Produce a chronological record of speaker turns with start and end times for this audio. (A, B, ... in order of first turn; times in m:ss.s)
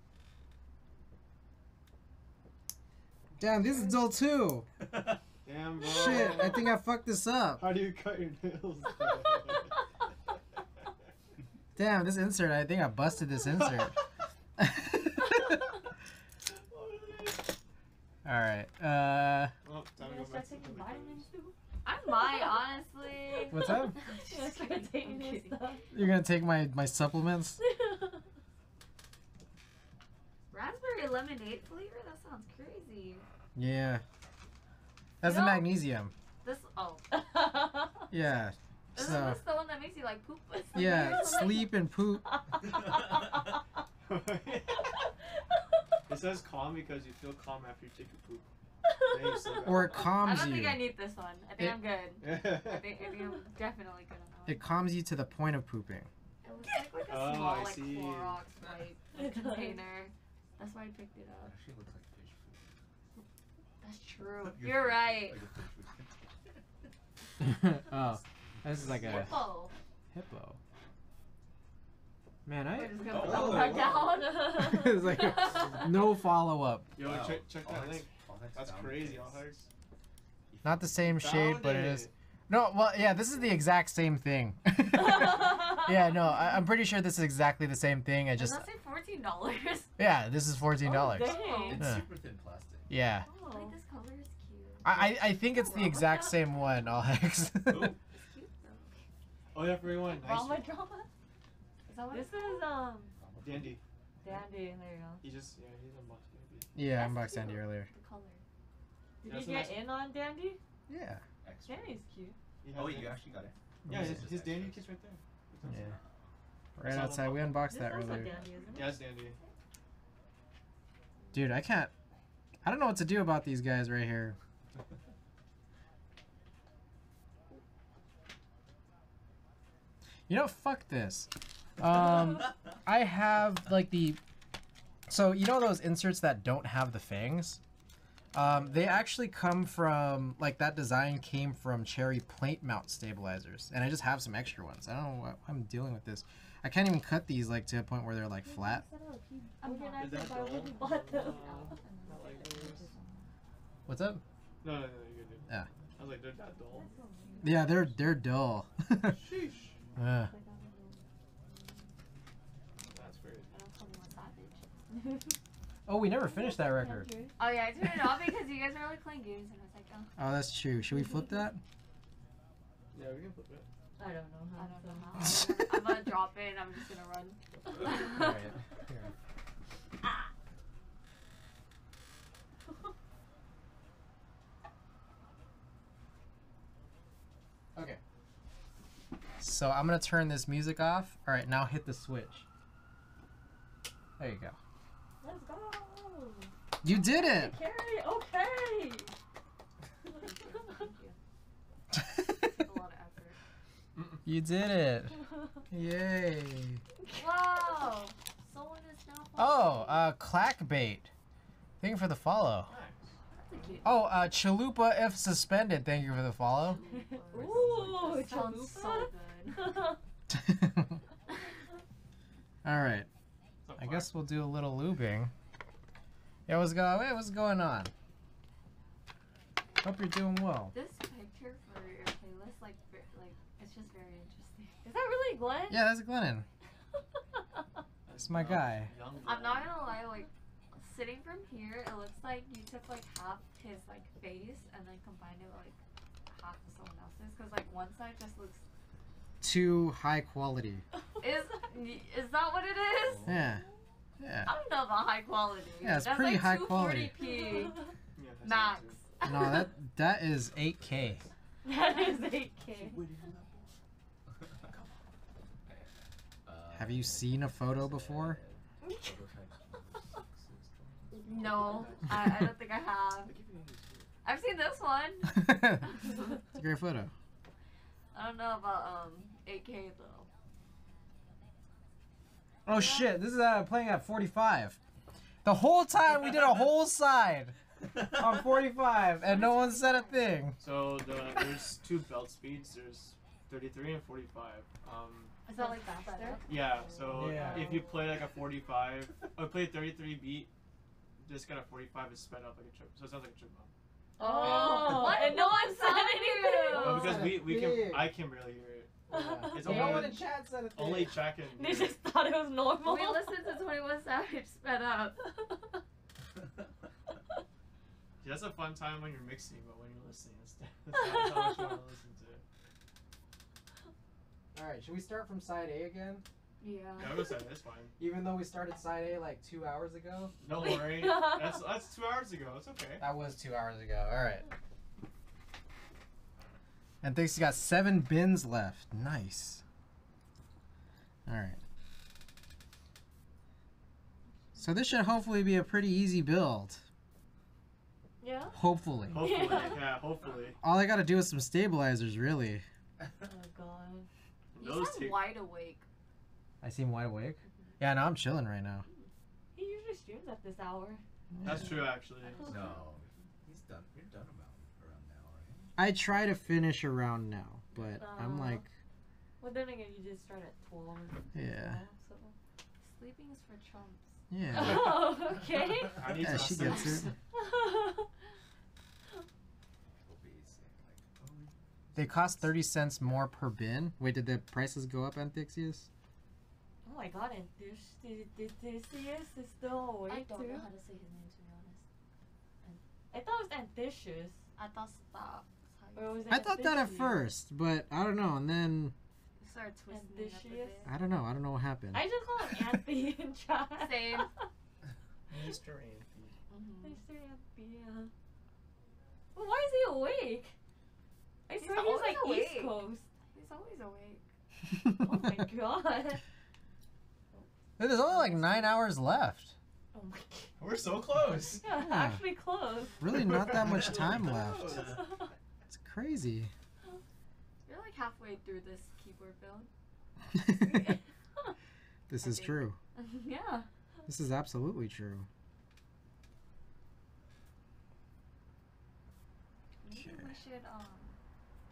0:03.4-0:04.7 A
0:04.9-0:05.2 B
0:05.4-0:06.8 C
0:05.8-0:07.7 A
0:07.6-0:09.8 C
0:11.8-0:14.0 A
0:14.6-0:15.5 A
0:16.5-0:17.5 C
0:18.2-0:19.6 A
0:19.6-0:21.3 C
0:20.0-0:21.6 D
0:21.8-0:25.8 E
0:23.3-0:25.9 D
0:23.5-0:24.0 A
0:25.9-0:27.6 A
0:27.6-0:28.2 D
0:30.5-0:33.2 E
0:33.6-0:34.0 A
0:35.2-0:36.1 A
0:35.3-0:35.7 D
0:36.4-0:37.1 E
0:37.1-0:38.1 D
0:38.1-0:39.4 A
0:39.0-0:41.7 E
0:40.7-0:41.7 D
0:40.8-0:42.2 A
0:42.2-0:43.5 D
0:42.7-0:43.2 B
0:44.0-0:45.0 C
0:46.1-0:48.5 C
0:49.1-0:50.1 C
0:49.1-0:49.7 D
0:49.6-0:50.8 A
0:50.2-0:54.6 E
0:52.2-0:52.9 C
0:54.5-0:56.1 A
0:56.4-1:01.5 E
0:57.1-0:58.4 C
0:59.2-0:59.8 D
1:01.4-1:02.7 B
1:03.8-1:05.4 E
1:04.5-1:06.6 B
1:07.4-1:09.4 A
1:08.6-1:09.1 B
1:08.8-1:09.3 C
1:09.0-1:09.7 E
1:10.1-1:10.6 A
1:12.5-1:13.7 A
1:12.7-1:15.9 E
1:13.1-1:14.0 B
1:13.1-1:14.2 C
1:14.1-1:15.0 D
1:14.5-1:16.9 A
1:15.4-1:15.7 B
1:17.0-1:19.7 C
1:17.0-1:19.4 B
1:20.5-1:21.2 B
1:20.6-1:28.7 A
1:21.1-1:22.1 C
1:25.2-1:25.8 D
1:28.4-1:29.9 E
1:30.0-1:32.1 A
1:30.8-1:31.8 D
1:31.2-1:31.8 E
1:31.6-1:32.9 B
1:32.9-1:33.3 A
1:33.2-1:33.7 D
1:33.5-1:36.1 E
1:34.8-1:38.0 A
1:35.6-1:36.5 D
1:37.7-1:38.0 B
1:38.1-1:38.9 E
1:39.5-1:40.8 C
1:40.0-1:41.1 D
1:41.9-1:42.7 E
1:42.1-1:43.2 D
1:43.2-1:43.8 B
1:43.4-1:44.5 C
1:44.2-1:45.2 D
1:45.2-1:46.8 C
1:46.8-1:47.9 A
1:46.9-1:48.4 E
1:49.2-1:50.6 D
1:49.2-1:49.8 C
1:50.9-1:51.2 A
1:51.4-1:52.0 B
1:51.7-1:52.4 D
1:52.6-1:53.3 C
1:52.7-1:55.0 B
1:53.9-1:54.3 A
1:53.9-1:55.2 C
1:55.5-1:56.3 B
1:55.6-1:56.0 A
1:56.8-1:58.4 A
1:56.8-1:57.6 C
1:57.6-1:59.1 D
1:58.3-1:59.0 B
1:58.7-1:59.4 C
1:59.3-1:59.5 E
2:01.3-2:01.9 A
2:02.6-2:04.4 A
2:10.3-2:14.2 A
2:15.1-2:17.6 A
2:18.3-2:28.8 A
2:18.4-2:18.8 C
2:28.4-2:32.9 D
2:29.6-2:33.3 E
2:30.0-2:32.8 C
2:33.9-2:34.2 A
2:34.6-2:36.9 C
2:36.7-2:37.8 D
2:37.2-2:37.9 E
2:37.4-2:39.3 A
2:39.0-2:39.8 C
2:40.0-2:40.3 A
2:40.2-2:41.1 D
2:42.8-2:43.5 C
2:43.5-2:44.9 E
2:45.9-2:47.1 A
2:46.2-2:47.4 D
2:47.4-2:50.1 E
2:50.2-2:51.6 A
2:52.9-2:53.7 C
2:54.0-2:55.2 D
2:54.6-2:58.4 E
2:57.9-2:59.1 A
3:07.8-3:08.0 A
3:09.4-3:12.5 A
3:14.2-3:14.6 A
3:15.2-3:19.1 D
3:16.8-3:17.6 A
3:20.1-3:21.2 E
3:21.9-3:22.6 A
3:22.6-3:23.4 E
3:24.0-3:24.2 C
3:24.2-3:25.2 A
3:25.7-3:26.8 A
3:27.1-3:30.1 E
3:29.4-3:31.1 A
3:31.8-3:32.7 A
3:32.6-3:33.1 C
3:33.3-3:34.2 E
3:33.8-3:36.8 A
3:36.6-3:39.8 E
3:36.9-3:40.0 D
3:40.3-3:41.0 A
3:42.6-3:43.1 A
3:43.6-3:44.1 C
3:43.8-3:45.3 A
3:46.5-3:47.9 A
3:49.8-3:50.8 A
3:50.7-3:54.9 E
3:54.8-3:55.8 D
3:55.7-3:56.5 A
3:58.1-3:59.9 C
3:58.2-3:58.9 A
3:59.2-4:05.8 E
4:06.3-4:08.6 E
4:09.4-4:10.8 A
4:11.2-4:13.3 E
4:13.3-4:13.6 A
4:14.2-4:14.5 A
4:14.5-4:17.9 E
4:15.8-4:17.2 A
4:17.2-4:17.9 D
4:18.1-4:19.0 C
4:18.4-4:19.7 E
4:19.2-4:21.2 A
4:20.5-4:21.3 B
4:21.6-4:23.0 D
4:21.7-4:22.2 E
4:22.8-4:23.6 B
4:22.9-4:23.3 C
4:24.3-4:24.8 B
4:25.6-4:32.1 B
4:26.7-4:28.4 A
4:28.8-4:29.2 D
4:31.1-4:33.4 E
4:31.4-4:32.2 C
4:33.3-4:34.1 C
4:34.2-4:36.3 E
4:35.3-4:35.9 A
4:36.5-4:37.1 A
4:38.1-4:40.3 E
4:42.6-4:44.8 A
4:42.7-4:43.2 E
4:45.4-4:50.6 A
4:49.3-4:50.3 E
4:50.6-4:55.4 C
4:55.5-4:57.8 E
4:55.6-4:56.5 D
4:56.5-5:00.5 C
4:57.1-4:57.8 A
4:57.3-4:58.0 D
5:01.2-5:03.7 C
5:04.2-5:07.2 E
5:04.2-5:07.3 D
5:04.4-5:04.8 C
5:06.7-5:12.0 C
5:06.9-5:08.2 A
5:09.1-5:11.4 A
5:09.1-5:10.1 D
5:11.5-5:13.4 D
5:12.8-5:15.2 E
5:18.2-5:22.4 C
5:21.0-5:21.8 D
5:24.6-5:26.2 A
5:26.6-5:27.4 E
5:27.0-5:27.9 C
5:28.0-5:30.4 A
5:30.4-5:33.0 C
5:30.6-5:31.6 D
5:33.0-5:34.5 A
5:37.0-5:39.6 A
5:41.3-5:41.6 A
5:44.6-5:46.8 A
5:48.2-5:48.6 D
5:48.5-5:49.1 B
5:48.5-5:49.3 A
5:49.1-5:50.6 C
5:49.2-5:50.0 D
5:50.6-5:52.6 A
5:53.2-5:54.1 D
5:54.5-5:55.4 C
5:54.6-5:55.8 E
5:56.6-5:58.9 A
5:59.6-6:01.0 D
6:01.3-6:01.9 A
6:01.4-6:02.8 C
6:02.4-6:05.7 B
6:02.5-6:02.8 E
6:05.8-6:08.7 A
6:07.8-6:08.6 D
6:09.4-6:12.4 D
6:11.3-6:11.8 A
6:12.8-6:14.1 E
6:14.3-6:15.1 A
6:14.5-6:16.5 D
6:16.0-6:17.1 C
6:16.1-6:17.1 A
6:17.3-6:18.1 D
6:20.0-6:22.4 B
6:21.2-6:22.4 C
6:22.0-6:25.9 A
6:26.9-6:30.7 D
6:30.1-6:31.8 E
6:33.1-6:34.4 D
6:34.6-6:36.3 E
6:36.0-6:37.3 D
6:36.3-6:39.0 A
6:39.4-6:40.9 E
6:39.9-6:40.9 D
6:40.9-6:42.1 A
6:41.9-6:44.5 D
6:43.8-6:44.3 E
6:45.3-6:46.4 C
6:46.5-6:47.0 E
6:46.8-6:48.1 D
6:49.4-6:50.6 D
6:51.5-6:54.2 E
6:51.5-6:53.1 D
6:55.0-6:56.2 D
6:57.4-6:58.7 D
6:57.8-6:59.6 A
6:59.9-7:00.5 D
7:00.6-7:01.6 C
7:01.5-7:03.0 D
7:01.7-7:02.2 A
7:03.0-7:05.0 A
7:03.1-7:05.1 C
7:03.6-7:04.5 B
7:04.8-7:05.3 D
7:05.7-7:06.5 A
7:07.6-7:09.7 E
7:10.3-7:10.9 A
7:10.6-7:11.0 D
7:12.1-7:12.8 A
7:12.2-7:13.7 E
7:14.1-7:15.3 A
7:19.8-7:21.2 E
7:19.9-7:20.4 A